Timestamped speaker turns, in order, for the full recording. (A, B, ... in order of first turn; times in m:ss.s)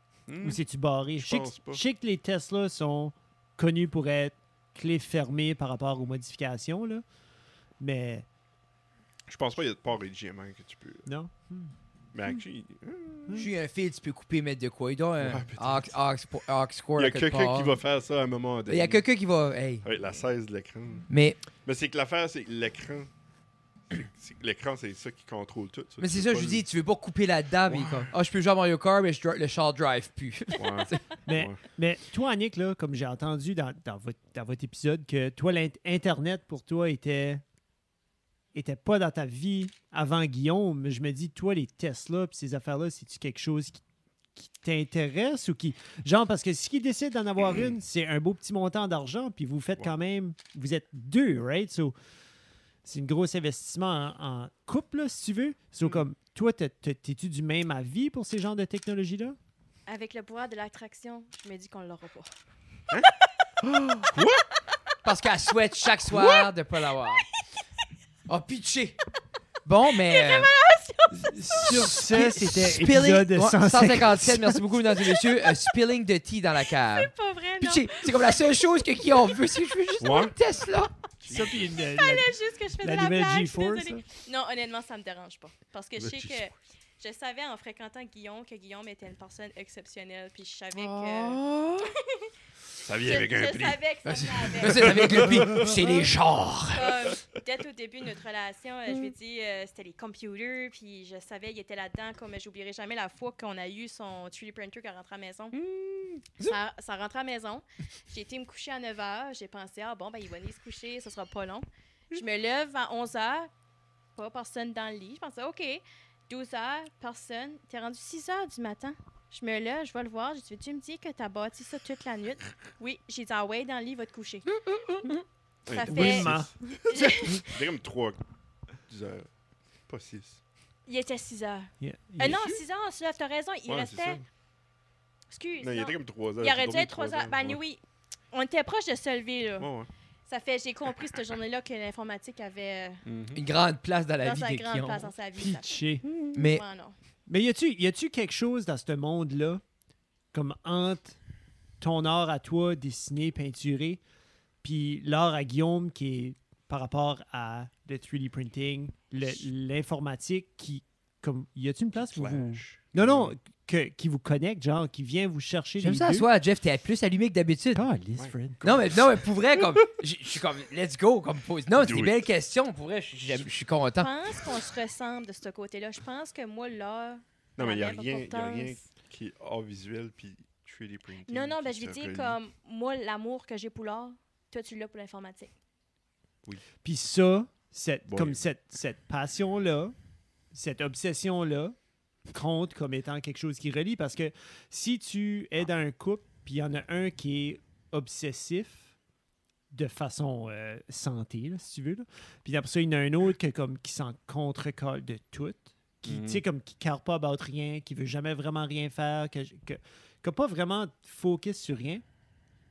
0:00.3-0:00.6 A
0:00.4-0:07.0 B
0:01.2-0:01.8 A
0:07.8-0:08.3 B
0:09.3-0:11.0 A
0:11.1-0:11.7 B
0:12.1-0:13.5 A
0:13.4-0:17.8 C
0:15.2-0:15.9 A
0:17.0-0:19.0 A
0:18.7-0:19.9 C
0:19.8-0:21.1 A
0:21.1-0:21.4 C
0:21.6-0:23.1 A
0:23.9-0:26.6 A
0:26.0-0:31.0 C
0:27.7-0:28.1 A
0:30.6-0:31.6 A
0:31.3-0:37.4 B
0:38.5-0:43.8 B
0:44.4-0:51.9 B
0:52.8-0:59.4 B
0:59.9-1:02.3 D
1:03.0-1:03.5 D
1:04.0-1:04.4 A
1:05.0-1:07.3 C
1:05.9-1:06.5 D
1:07.1-1:07.5 D
1:08.3-1:09.0 C
1:09.6-1:10.5 C
1:10.0-1:12.0 D
1:11.1-1:14.6 B
1:11.7-1:20.9 C
1:15.1-1:15.7 D
1:16.7-1:19.5 D
1:20.0-1:20.4 A
1:21.2-1:21.8 A
1:21.3-1:24.0 B
1:21.7-1:32.3 D
1:26.0-1:26.5 A
1:30.8-1:31.9 C
1:32.8-1:33.8 A
1:32.8-1:35.0 D
1:34.1-1:37.0 C
1:34.5-1:36.0 A
1:35.7-1:36.0 D
1:36.7-1:45.6 D
1:45.5-1:46.3 A
1:46.4-1:53.5 D
1:54.2-2:04.5 D
2:05.7-2:08.2 A
2:05.7-2:07.6 D
2:05.8-2:06.5 B
2:08.9-2:09.3 A
2:09.9-2:10.4 A
2:10.9-2:14.2 D
2:11.8-2:12.6 B
2:13.7-2:14.3 A
2:15.3-2:19.7 D
2:15.6-2:17.6 A
2:19.6-2:19.9 A
2:20.3-2:23.0 D
2:23.1-2:23.4 A
2:23.3-2:25.1 C
2:24.2-2:25.8 D
2:25.4-2:26.2 B
2:26.3-2:26.6 C
2:26.3-2:27.0 D
2:27.3-2:29.6 B
2:30.3-2:31.2 B
2:31.8-2:34.0 B
2:34.6-2:46.3 B
2:42.0-2:43.4 A
2:45.8-2:47.8 C
2:47.7-2:48.9 B
2:48.6-2:54.1 C
2:51.8-2:52.2 A
2:54.0-2:58.9 D
2:57.6-3:02.4 A
3:01.3-3:05.5 D
3:06.8-3:09.9 B
3:08.1-3:08.4 A
3:10.5-3:11.8 B
3:12.3-3:18.9 B
3:19.7-3:32.0 B
3:26.1-3:26.4 A